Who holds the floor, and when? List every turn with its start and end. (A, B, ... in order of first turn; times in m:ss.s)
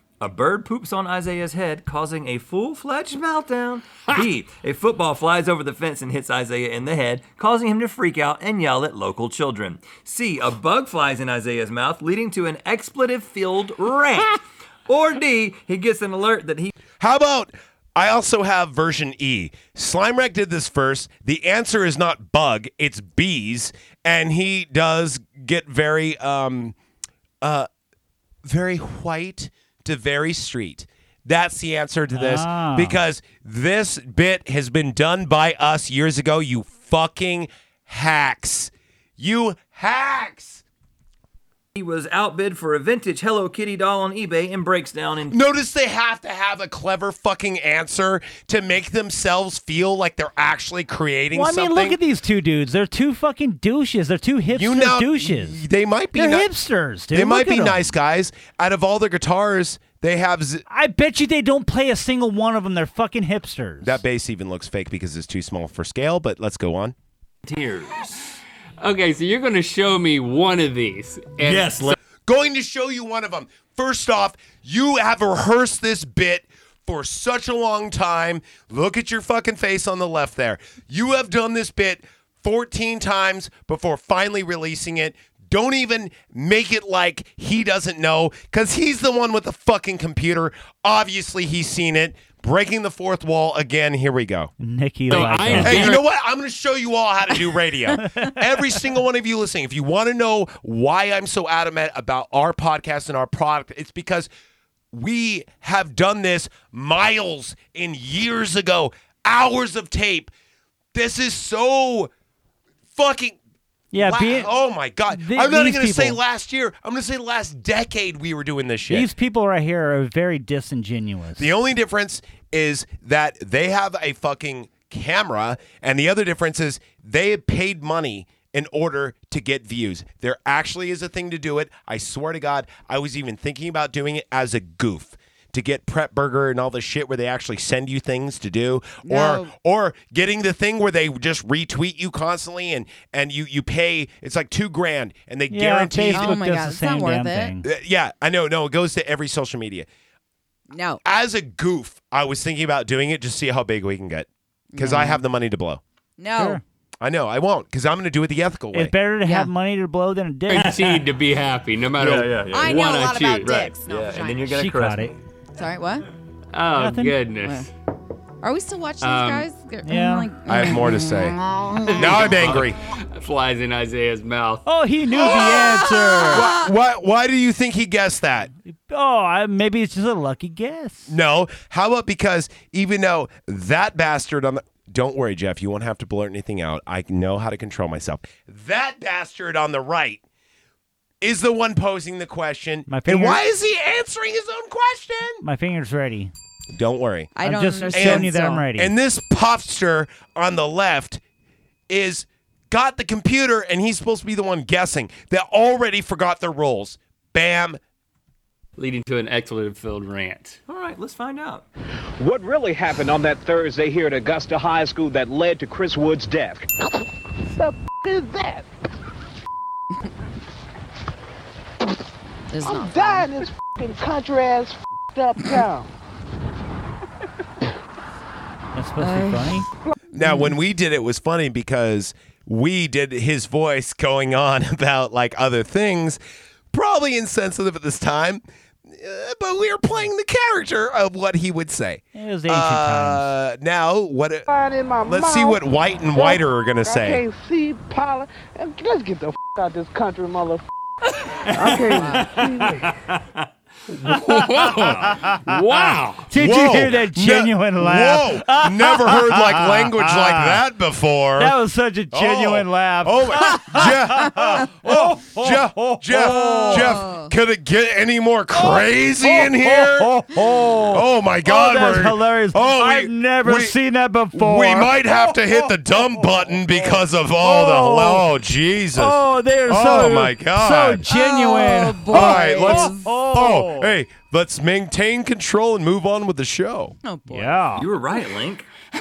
0:00.2-0:16.7 A
0:17.0-0:26.7 B
0:27.4-0:27.7 B
0:28.4-0:40.6 B
0:32.2-0:33.0 C
0:41.7-0:45.4 A
0:45.3-0:52.0 B
0:51.3-0:55.6 C
0:54.5-0:56.5 B
0:56.2-0:57.9 C
0:57.1-1:00.6 B
1:00.7-1:04.0 C
1:03.8-1:07.0 B
1:07.4-1:08.2 A
1:08.8-1:12.0 D
1:11.4-1:12.0 A
1:12.3-1:34.5 B
1:34.6-1:36.0 C
1:35.1-1:36.1 D
1:35.5-1:44.3 B
1:38.1-1:38.3 C
1:44.9-1:50.3 B
1:50.9-1:52.1 B
1:52.9-1:53.4 B
1:53.9-1:54.5 C
1:53.9-1:59.1 B
1:55.1-1:56.2 C
1:58.9-2:01.5 C
2:01.4-2:26.4 B
2:19.0-2:19.5 E
2:25.5-2:27.7 C
2:26.1-2:27.6 E
2:27.6-2:29.9 B
2:30.7-2:31.0 E
2:31.0-2:35.8 B
2:34.7-2:35.2 E
2:36.2-2:36.6 E
2:36.4-2:36.6 C
2:37.0-2:39.0 B
2:38.7-2:40.8 C
2:39.2-2:39.5 E
2:40.5-2:41.1 A
2:40.5-2:43.7 D
2:41.9-2:45.2 A
2:42.5-2:44.6 E
2:44.5-2:45.2 C
2:45.6-2:46.1 E
2:46.5-2:47.7 D
2:46.8-2:47.2 C
2:47.4-2:47.7 E
2:48.4-2:52.1 E
2:49.0-2:49.5 D
2:49.8-2:50.3 C
2:50.4-2:51.4 B
2:51.9-2:54.6 D
2:51.9-2:52.8 B
2:54.7-2:56.5 C
2:55.2-2:56.7 E
2:56.3-2:58.5 B
2:58.6-3:01.1 C
3:01.1-3:10.2 B
3:11.2-3:15.4 B
3:12.9-3:13.4 C
3:15.4-3:16.3 C
3:16.7-3:17.3 B
3:17.4-3:18.7 E
3:17.4-3:18.9 C
3:17.9-3:21.2 B
3:21.9-3:27.8 B
3:28.8-3:30.6 D
3:30.7-3:31.6 A
3:32.2-3:36.6 F
3:37.5-3:38.7 G
3:42.5-3:43.3 E
3:42.6-3:45.9 G
3:48.7-3:49.7 C
3:49.0-3:50.5 E
3:50.2-3:56.2 B
3:56.7-4:04.5 B
4:02.2-4:03.3 C
4:04.5-4:10.6 G
4:05.0-4:07.2 B
4:11.4-4:13.2 A
4:11.6-4:12.9 G
4:14.0-4:16.3 D
4:14.1-4:15.6 C
4:16.2-4:20.6 C
4:16.3-4:21.6 B
4:21.4-4:27.1 C
4:22.1-4:30.3 B
4:26.2-4:27.3 E
4:28.5-4:38.3 C
4:30.9-4:33.8 B
4:34.3-4:41.1 B
4:38.9-4:44.0 C
4:41.1-4:43.1 E
4:42.1-4:47.0 B
4:47.0-4:47.6 E
4:47.3-4:47.9 C
4:47.8-4:48.7 A